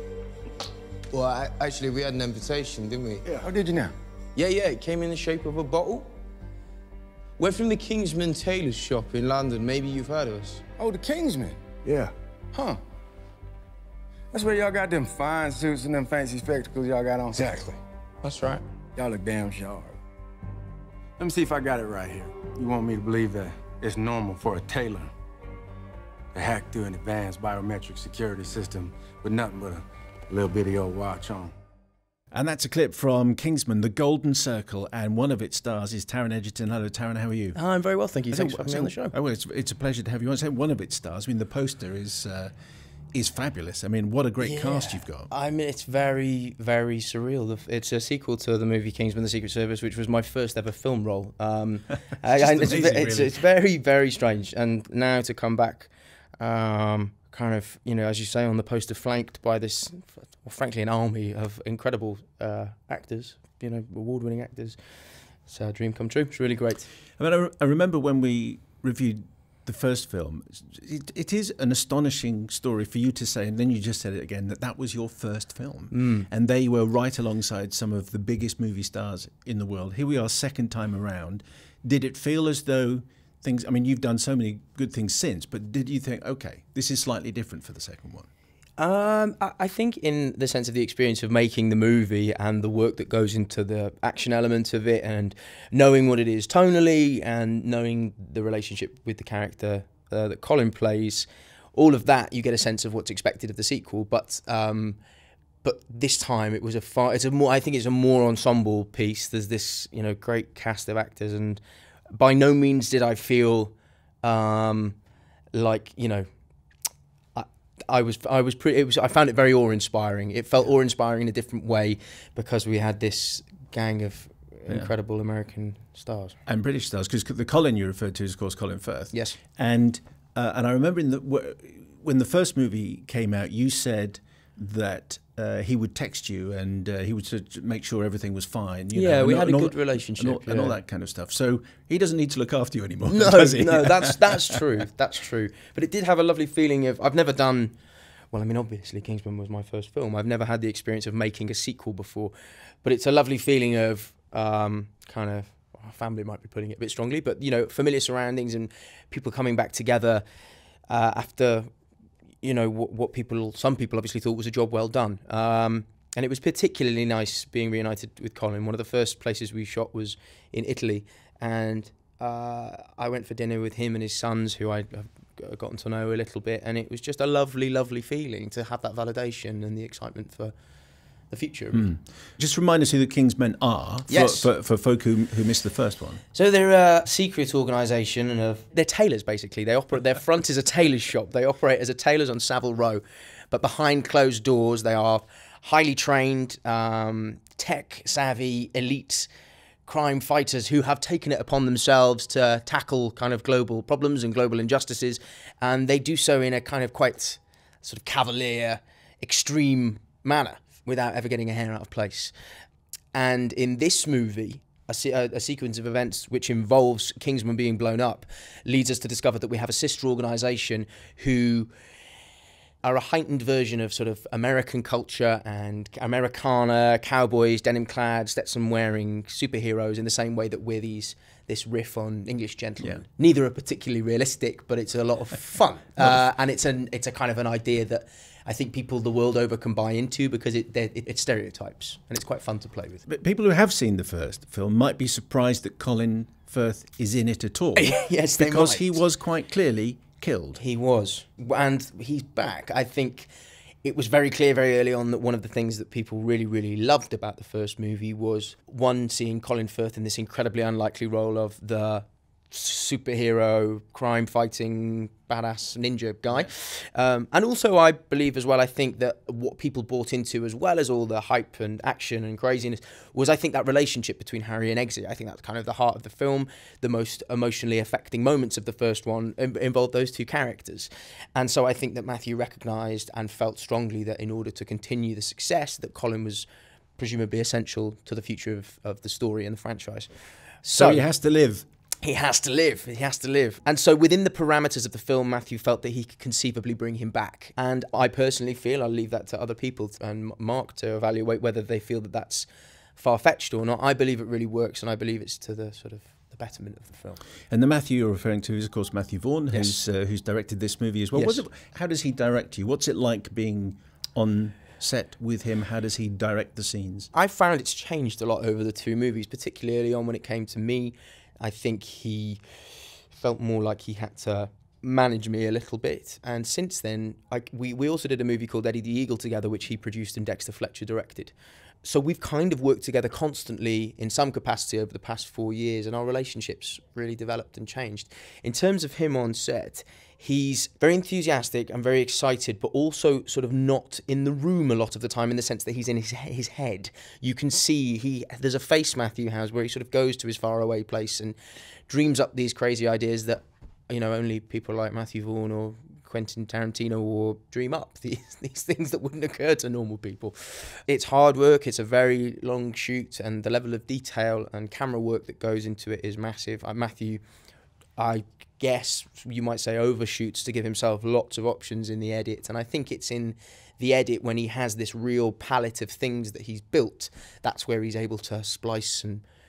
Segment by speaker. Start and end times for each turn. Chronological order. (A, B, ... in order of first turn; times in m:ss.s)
0:01.1-0:03.3 A
0:03.2-0:03.9 B
0:04.4-0:06.1 A
0:07.4-0:10.7 A
0:10.8-0:12.8 B
0:14.3-0:17.8 B
0:18.2-0:18.6 C
0:19.0-0:20.0 B
0:21.2-0:25.1 B
0:26.3-0:31.5 B
0:32.3-0:37.6 D
0:37.5-0:39.1 C
0:38.3-0:42.5 D
0:43.1-0:45.3 D
0:44.4-1:04.8 C
0:52.3-0:53.4 D
1:05.4-1:06.9 C
1:07.2-1:28.3 D
1:15.9-1:16.2 C
1:28.8-1:45.0 C
1:45.6-1:51.6 C
1:52.2-1:55.0 C
1:55.5-1:56.3 C
1:57.3-2:06.4 C
2:06.5-2:24.6 D
2:09.1-2:09.4 C
2:18.9-2:20.8 C
2:23.0-2:27.7 C
2:28.3-2:40.2 C
2:40.9-2:41.7 C
2:42.4-3:00.5 C
3:01.3-3:01.9 C
3:01.7-3:06.2 D
3:04.1-3:04.5 C
3:06.3-3:19.3 C
3:19.8-3:32.3 C
3:33.1-3:41.7 C
3:42.8-4:03.0 C
4:03.0-4:10.6 D
4:07.7-4:09.0 C
4:10.6-4:13.3 C
4:13.8-4:50.1 C
4:50.6-4:51.0 C
4:50.8-4:51.6 D
4:52.0-5:07.2 C
5:07.5-5:17.1 D
5:09.5-5:09.8 C
5:11.1-5:11.4 C
5:17.1-5:22.4 C
5:23.1-5:51.4 C
5:51.9-6:07.2 C
6:08.0-6:19.2 C